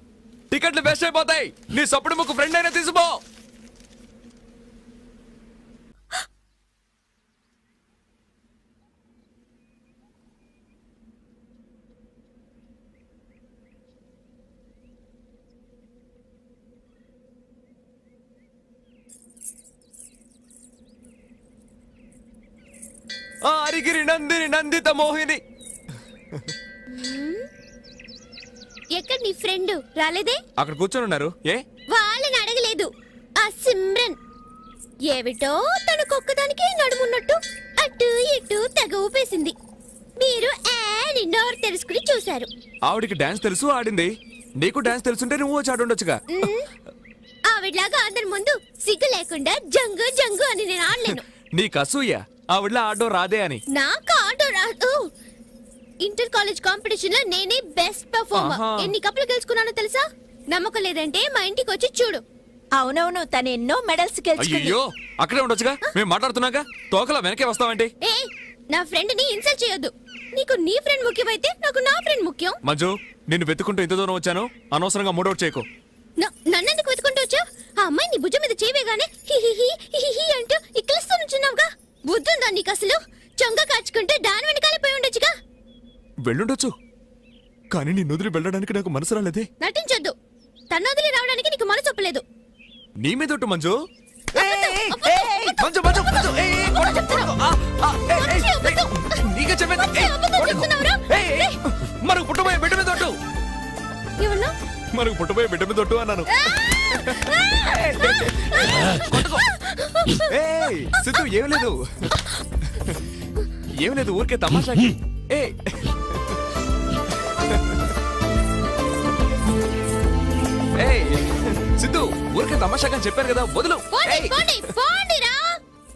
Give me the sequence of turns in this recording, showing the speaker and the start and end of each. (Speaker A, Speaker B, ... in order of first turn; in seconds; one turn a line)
Speaker A: 0.5-3.2
Speaker A: 23.4-25.4
Speaker B: 26.9-27.4
Speaker B: 28.9-30.4
Speaker A: 30.6-31.6
Speaker B: 31.9-32.9
Speaker B: 33.4-34.2
Speaker B: 35.1-39.5
Speaker B: 40.2-42.5
Speaker A: 42.9-46.2
Speaker B: 46.3-46.6
Speaker B: 47.5-51.2
Speaker A: 50.9-53.6
Speaker B: 53.7-55.0
Speaker B: 56.0-62.2
Speaker A: 58.3-58.9
Speaker C: 62.8-64.8
Speaker A: 64.4-67.9
Speaker B: 68.0-72.6
Speaker A: 72.6-75.7
Speaker B: 76.2-85.3
Speaker A: 86.2-86.7
Speaker A: 87.7-89.5
Speaker B: 89.6-90.1
Speaker B: 90.7-92.2
Speaker A: 93.0-93.8
Speaker B: 94.3-97.3
Speaker A: 94.3-103.2
Speaker B: 98.1-98.9
Speaker B: 99.8-101.6
Speaker B: 104.2-104.5
Speaker A: 104.9-109.4
Speaker B: 106.3-110.3
Speaker A: 110.2-112.0
Speaker A: 113.8-116.4
Speaker A: 120.8-124.6
Speaker B: 123.9-125.4